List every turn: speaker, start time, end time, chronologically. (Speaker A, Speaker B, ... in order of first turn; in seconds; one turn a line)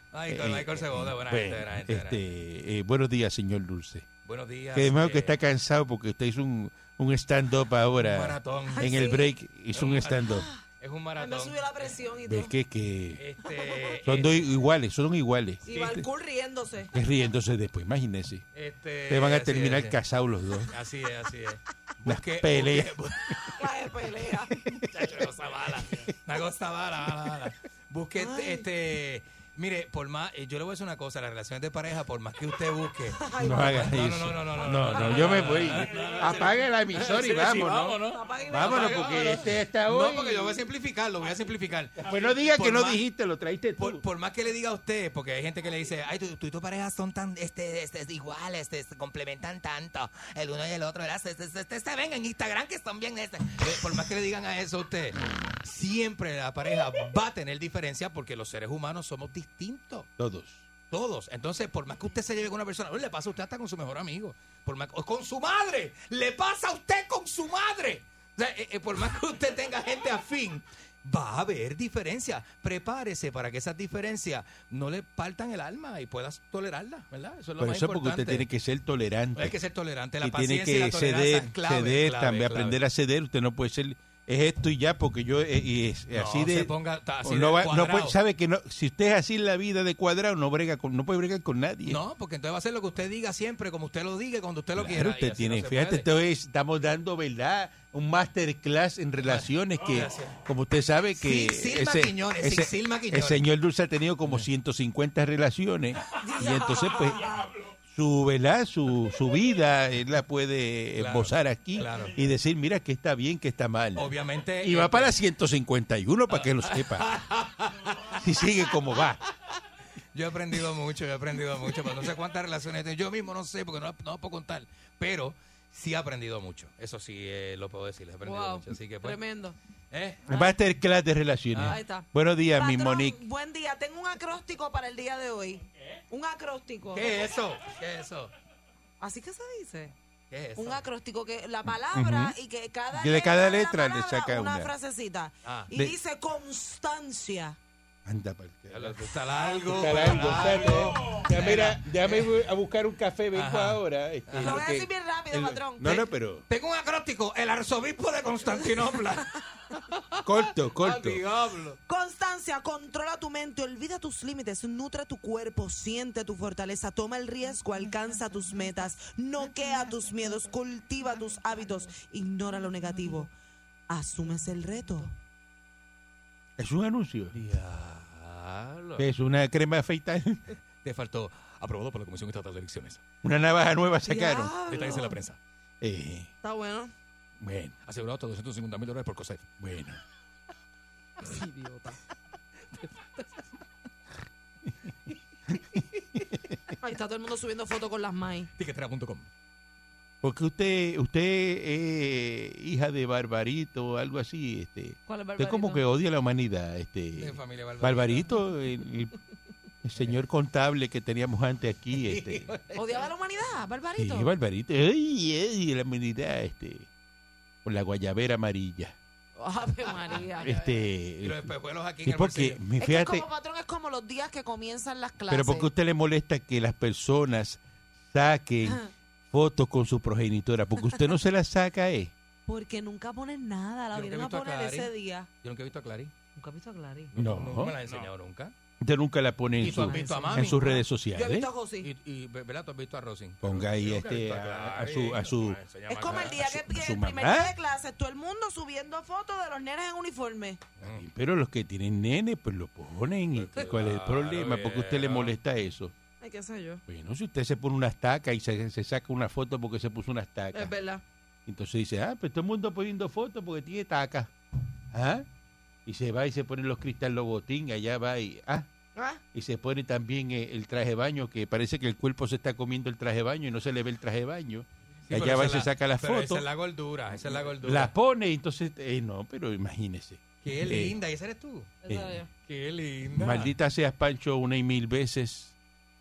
Speaker A: 0.1-2.2
Speaker B: 0.3-4.1
Speaker A: 4.2-5.4
Speaker B: 4.7-10.5
Speaker A: 8.0-8.9
Speaker C: 8.7-9.3
Speaker A: 9.7-12.0
Speaker C: 10.3-10.6
Speaker C: 11.2-12.5
Speaker B: 12.3-13.2
Speaker A: 13.2-14.5
Speaker B: 14.0-16.0
Speaker C: 15.7-16.9
Speaker B: 16.9-18.4
Speaker A: 18.5-20.0
Speaker B: 19.1-20.7
Speaker A: 20.7-23.7
Speaker B: 22.0-23.4
Speaker C: 23.6-24.5
Speaker B: 24.5-25.1
Speaker A: 24.9-43.0
Speaker C: 28.2-28.6
Speaker C: 33.2-33.9
Speaker B: 33.4-40.6
Speaker C: 38.1-39.4
Speaker B: 42.0-44.0
Speaker A: 43.8-60.1
Speaker B: 60.2-60.7
Speaker A: 60.9-78.5
Speaker B: 77.6-79.6
Speaker A: 79.4-82.8
Speaker B: 80.2-86.7
Speaker A: 86.1-88.2
Speaker B: 87.2-92.0
Speaker A: 91.8-96.1
Speaker B: 94.8-114.1
Speaker A: 99.2-100.4
Speaker A: 101.2-103.5
Speaker C: 106.2-107.3
Speaker A: 111.0-112.2
Speaker A: 114.0-115.2
Speaker B: 114.6-117.1
Speaker A: 116.3-118.2
Speaker B: 118.1-119.2
Speaker A: 120.1-129.2
Speaker C: 128.2-129.6
Speaker A: 129.9-130.2
Speaker B: 130.3-133.2
Speaker A: 131.5-131.8
Speaker C: 131.7-137.1
Speaker A: 136.9-138.3
Speaker C: 139.0-139.9
Speaker A: 140.3-140.8
Speaker C: 140.6-147.6
Speaker B: 141.9-142.3
Speaker B: 142.9-144.7
Speaker A: 145.4-145.7
Speaker B: 148.1-156.4
Speaker A: 148.7-152.4
Speaker A: 153.3-154.6
Speaker C: 154.4-155.9
Speaker A: 155.8-159.4
Speaker B: 160.2-161.2
Speaker A: 160.8-161.8
Speaker C: 161.9-173.3
Speaker C: 173.9-175.1
Speaker B: 176.6-177.4
Speaker A: 177.3-179.1
Speaker B: 179.0-180.4
Speaker A: 180.8-183.0
Speaker B: 183.2-184.5
Speaker C: 184.1-185.2
Speaker A: 184.7-185.4
Speaker B: 185.8-186.3
Speaker C: 186.4-186.9
Speaker B: 187.4-187.8
Speaker A: 187.8-189.5
Speaker B: 189.6-190.0
Speaker C: 191.2-192.0
Speaker C: 196.8-198.5
Speaker A: 198.6-199.3
Speaker B: 200.2-209.2
Speaker C: 205.1-205.9
Speaker A: 207.2-208.4
Speaker B: 209.8-212.5
Speaker A: 211.9-213.1
Speaker C: 212.8-214.3
Speaker B: 214.0-216.9
Speaker B: 217.6-219.0
Speaker C: 219.4-220.8
Speaker A: 220.1-220.6
Speaker B: 220.4-223.2
Speaker A: 221.2-222.6
Speaker C: 222.8-225.7
Speaker B: 225.3-232.1
Speaker C: 232.5-235.3
Speaker A: 233.9-234.9
Speaker A: 235.4-236.1
Speaker C: 236.4-237.1
Speaker A: 237.1-238.5
Speaker B: 237.2-237.8
Speaker B: 238.8-241.5
Speaker A: 239.6-240.6
Speaker C: 239.8-241.9
Speaker A: 241.8-246.4
Speaker B: 243.4-247.6
Speaker C: 245.9-250.6
Speaker A: 250.8-251.1
Speaker B: 250.8-255.9
Speaker A: 253.3-255.4
Speaker C: 256.2-256.8
Speaker B: 256.9-260.7
Speaker C: 260.5-261.0
Speaker B: 261.5-264.3
Speaker B: 264.9-265.3
Speaker B: 265.9-268.7
Speaker C: 269.0-269.2
Speaker B: 269.3-276.5
Speaker A: 275.1-277.9
Speaker B: 277.1-281.0
Speaker A: 280.4-281.8
Speaker C: 281.8-282.3
Speaker B: 281.9-282.2
Speaker A: 282.4-283.5
Speaker B: 283.1-285.5